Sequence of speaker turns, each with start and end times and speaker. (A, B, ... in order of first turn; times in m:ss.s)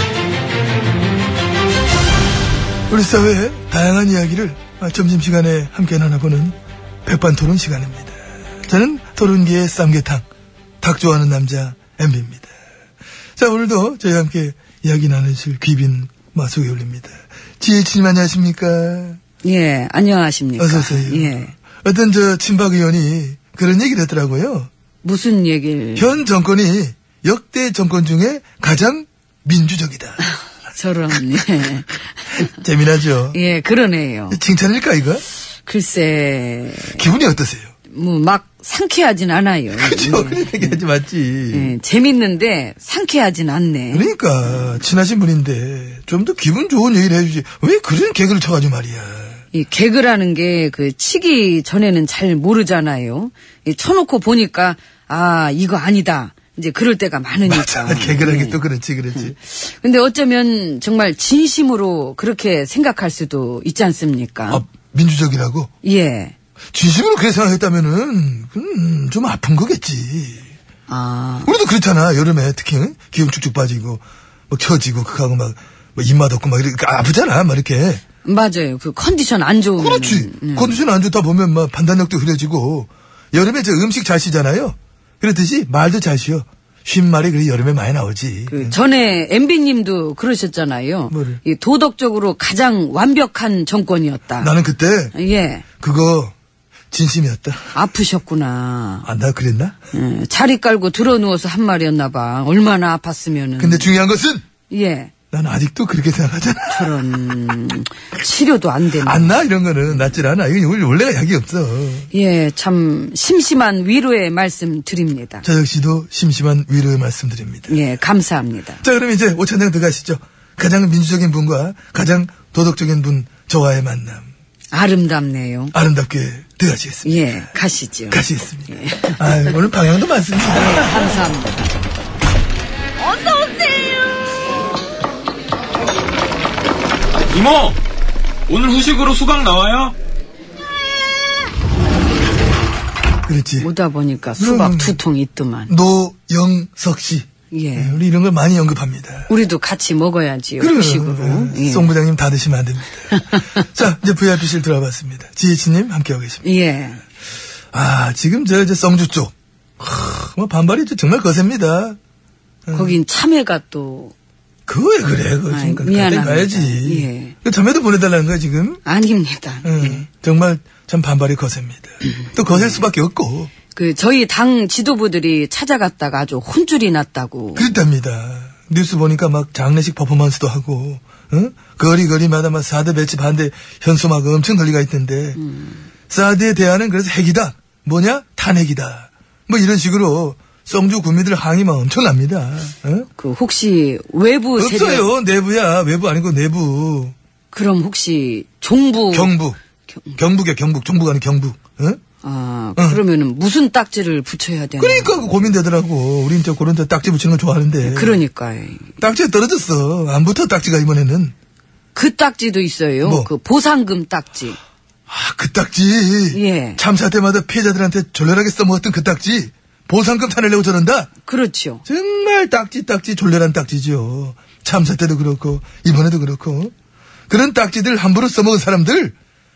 0:02.9-0:10.2 A
0:10.8-0:12.5 A
0:13.4-0:19.2 A
0:19.4-0:21.5 B
0:20.6-0:24.7 A
0:25.0-0:26.1 B
0:26.0-0:30.2 A
0:30.2-0:32.5 B
0:32.4-0:33.4 A
0:33.3-0:34.4 B
0:34.3-0:35.2 A
0:35.4-0:37.0 B
0:36.9-0:37.7 A
0:37.9-0:40.8 B
0:39.7-0:41.7 A
0:41.5-0:44.1 B
0:43.9-0:49.4 A
0:49.5-0:58.6 B
0:57.4-0:59.4 A
0:59.1-1:04.6 B
1:04.5-1:05.7 A
1:05.8-1:06.3 B
1:06.7-1:10.5 A
1:10.9-1:11.5 B
1:11.4-1:18.0 A
1:18.2-1:20.8 B
1:19.8-1:28.8 A
1:28.5-1:34.5 B
1:31.1-1:31.4 A
1:34.4-1:35.1 A
1:35.1-1:35.6 B
1:35.8-1:36.3 A
1:36.9-1:37.8 A
1:37.7-1:39.1 B
1:39.0-1:39.8 A
1:39.9-1:43.9 B
1:43.6-1:44.4 A
1:44.7-1:45.1 B
1:45.3-1:47.0 A
1:46.7-1:49.4 B
1:49.0-1:52.1 A
1:52.1-1:55.4 B
1:55.4-1:57.8 A
1:57.7-1:58.8 B
1:58.8-2:04.3 A
2:04.7-2:05.7 B
2:05.7-2:07.2 A
2:07.0-2:09.6 B
2:08.1-2:11.2 A
2:10.5-2:11.7 B
2:13.0-2:14.2 B
2:17.3-2:17.8 C
2:18.5-2:20.0 C
2:23.2-2:23.7 A
2:23.6-2:25.7 B
2:24.4-2:25.0 A
2:25.7-2:29.3 A
2:27.5-2:28.0 B
2:29.3-2:31.9 B
2:30.6-2:36.4 A
2:33.1-2:33.6 B
2:36.4-2:37.0 B
2:37.7-2:42.0 A
2:42.7-2:43.0 A
2:42.7-2:44.1 B
2:44.7-2:48.8 A
2:45.5-2:47.4 B
2:48.8-2:50.0 B
2:49.6-2:53.5 A
2:53.7-2:57.6 B
2:57.5-3:05.4 A
3:05.4-3:05.8 B
3:06.1-3:13.1 A
3:13.2-3:15.1 B
3:14.6-3:17.1 A
3:17.5-3:19.3 B
3:19.1-3:19.6 A
3:19.9-3:20.2 B
3:20.2-3:22.0 A
3:22.2-3:25.2 B
3:24.8-3:28.2 A
3:27.8-3:28.9 B
3:29.0-3:31.3 A
3:31.9-3:34.6 B
3:33.0-3:33.3 A
3:35.1-3:41.1 A
3:36.3-3:36.8 B
3:41.2-3:41.8 B
3:41.8-3:46.7 A
3:47.3-3:49.1 A